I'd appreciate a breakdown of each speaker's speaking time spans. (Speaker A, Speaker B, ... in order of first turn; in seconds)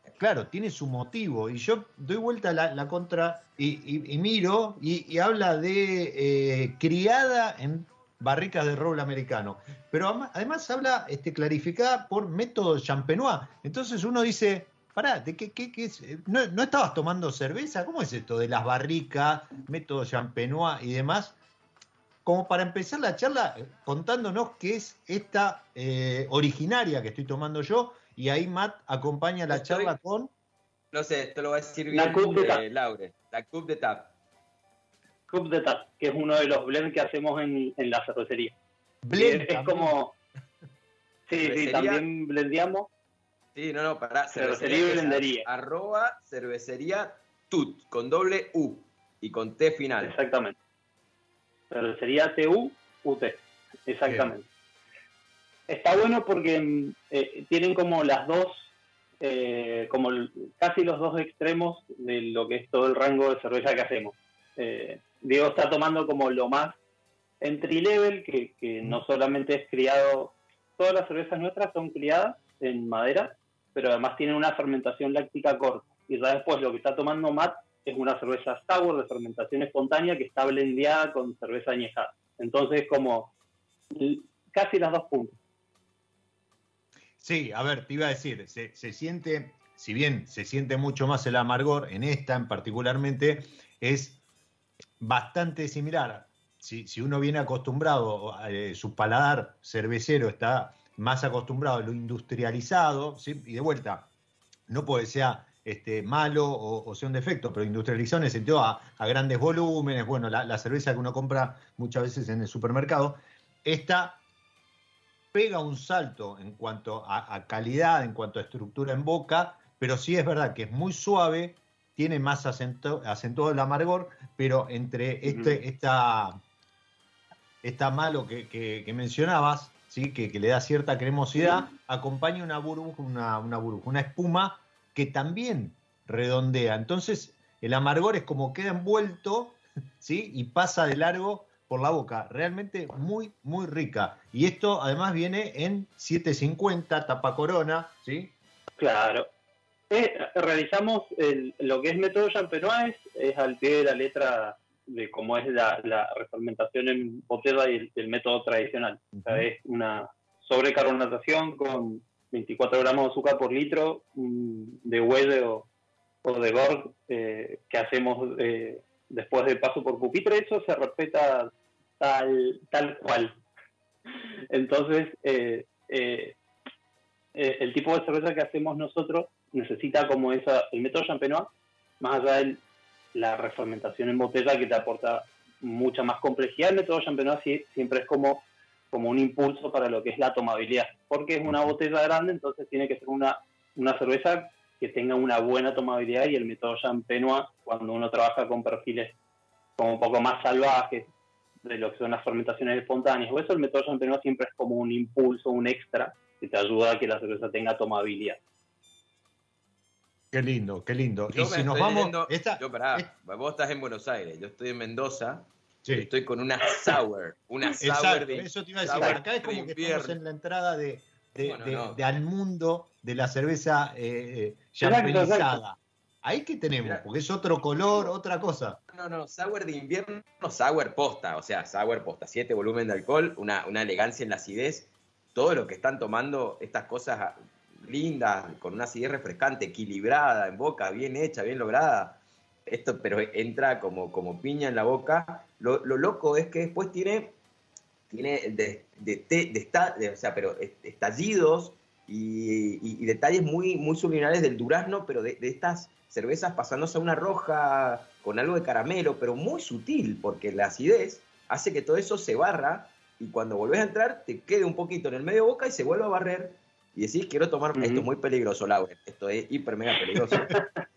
Speaker A: 0.2-21.4, 22.2-30.3, 39.0-39.9, 54.1-54.3, 87.2-94.2, 95.0-104.1, 104.7-114.2, 115.3-126.4, 127.6-148.3, 159.2-159.5, 210.3-213.1, 217.8-228.8
Speaker B: 29.5-29.9, 30.9-34.1, 41.4-42.0, 43.5-50.2, 211.3-220.2, 221.4-222.0, 228.9-247.3, 248.1-270.5
Speaker C: 31.9-32.6, 35.3-38.5, 39.2-40.1, 41.3-42.9, 44.3-45.5, 50.0-50.5, 51.7-54.5, 55.7-66.8, 67.4-83.3, 83.9-85.4, 125.3-125.6, 131.3-131.6, 148.8-149.3, 149.9-165.7, 166.2-173.4, 174.5-176.4, 177.3-182.6, 183.1-199.2, 199.8-201.1, 201.6-208.4, 224.8-225.6, 267.8-268.1, 270.4-270.6